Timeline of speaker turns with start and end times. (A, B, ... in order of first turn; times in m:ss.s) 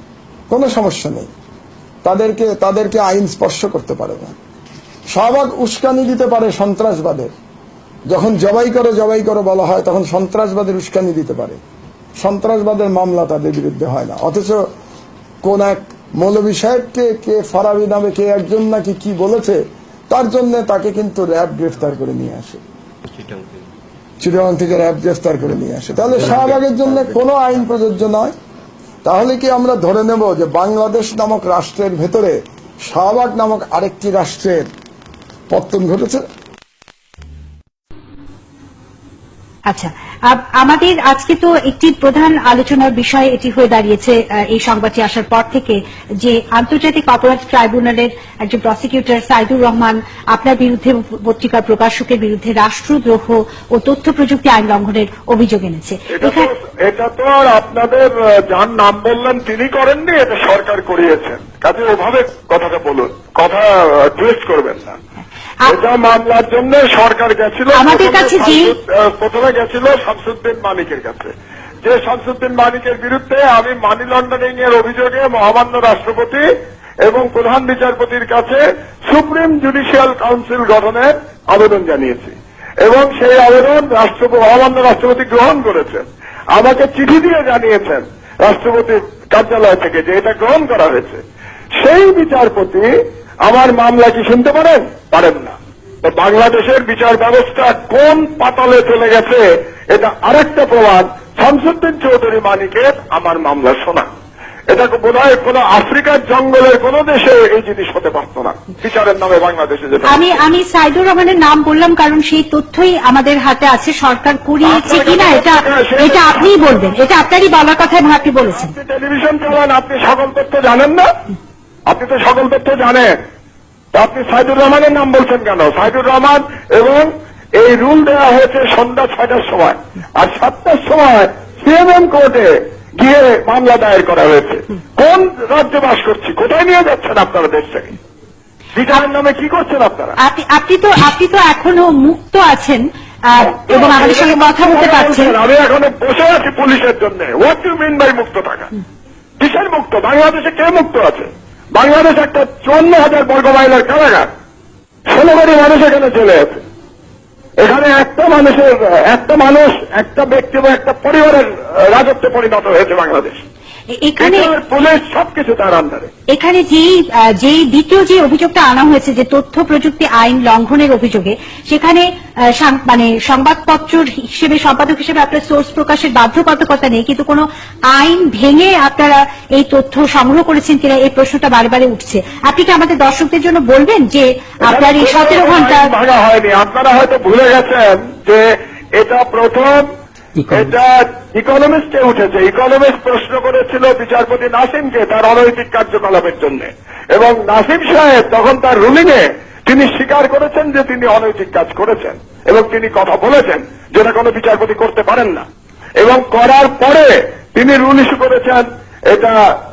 0:00.5-0:01.3 A
0:02.0-0:04.4 A
0:05.1-0:07.3 A
0:08.1-0:11.6 A
0:12.2-0:14.6 A
0:15.4-0:22.6 A
0:24.2-0:28.3 A
0:29.0-0:34.7 A
0:35.5-0:36.2 A
0:39.7-0:56.5 B
0:56.1-1:05.0 C
1:05.7-1:16.5 C
1:07.7-1:08.8 B
1:17.0-1:31.2 C
1:31.8-1:32.9 C
1:33.4-1:44.1 C
1:44.7-1:50.4 C
1:50.1-1:58.7 B
1:54.6-1:56.7 C
1:58.5-2:01.1 C
2:01.9-2:03.1 C
2:03.9-2:17.9 C
2:18.8-2:20.2 C
2:20.2-2:25.4 B
2:23.4-2:28.7 C
2:29.4-2:34.3 C
2:35.1-2:36.6 C
2:37.6-2:43.4 C
2:43.9-2:44.5 B
2:44.2-2:46.1 C
2:46.3-3:05.9 B
3:04.7-3:08.4 C
3:09.0-3:09.9 C
3:10.5-3:25.4 C
3:26.0-3:29.4 C